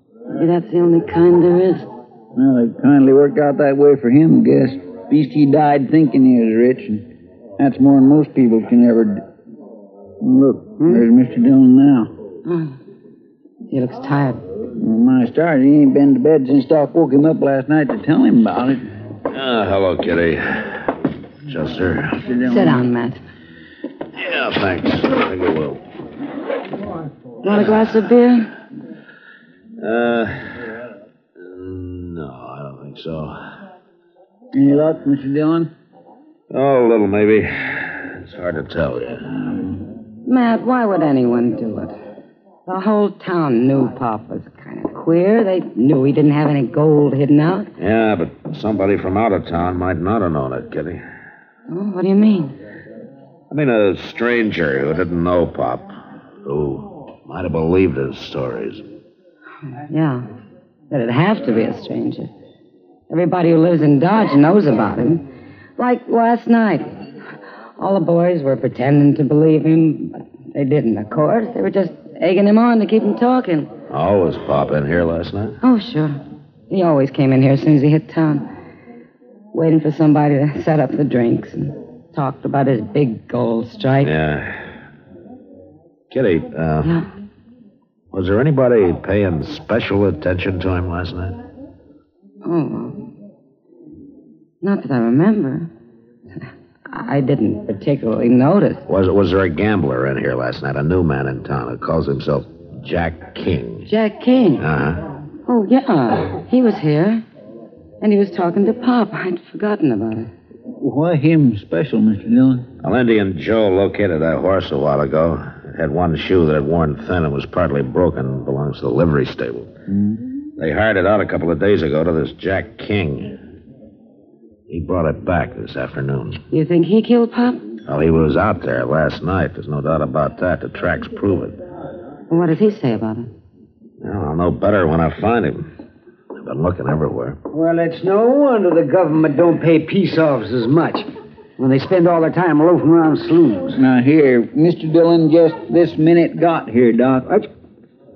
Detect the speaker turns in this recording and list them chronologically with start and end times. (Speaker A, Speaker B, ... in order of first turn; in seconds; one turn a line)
Speaker A: 0.3-1.9
Speaker B: 2.3-9.3
Speaker B: 10.2-12.1
Speaker A: 12.4-12.8
Speaker A: 13.7-14.4
Speaker B: 14.8-18.9
Speaker C: 19.3-20.9
Speaker C: 21.4-22.2
Speaker B: 22.2-22.8
Speaker A: 22.4-23.2
Speaker C: 24.1-25.8
Speaker A: 27.4-28.5
Speaker C: 29.8-30.6
Speaker C: 31.4-33.4
Speaker B: 34.5-35.7
Speaker C: 36.5-39.3
Speaker B: 39.4-39.8
Speaker A: 40.2-42.0
Speaker A: 42.7-47.7
Speaker C: 47.8-51.0
Speaker A: 51.7-52.5
Speaker C: 53.5-55.9
Speaker C: 56.4-58.8
Speaker A: 59.8-60.3
Speaker A: 60.9-62.3
Speaker A: 63.1-65.2
Speaker A: 65.8-67.0
Speaker A: 67.8-73.7
Speaker C: 73.9-75.6
Speaker A: 75.6-78.5
Speaker A: 79.5-84.1
Speaker C: 84.0-84.6
Speaker C: 86.1-87.0
Speaker C: 88.1-91.4
Speaker A: 92.4-93.1
Speaker A: 94.6-95.7
Speaker A: 96.9-98.8
Speaker C: 98.9-103.9
Speaker A: 103.8-104.6
Speaker C: 104.6-105.1
Speaker A: 105.4-107.2
Speaker A: 108.0-110.3
Speaker B: 110.8-112.7
Speaker C: 112.8-119.7
Speaker B: 119.9-120.2
Speaker C: 120.6-123.4
Speaker C: 124.7-126.4
Speaker A: 126.5-127.7
Speaker C: 127.8-131.6
Speaker A: 132.3-133.3
Speaker C: 134.0-135.7
Speaker C: 136.3-137.4
Speaker D: 137.5-143.8
Speaker B: 143.7-147.3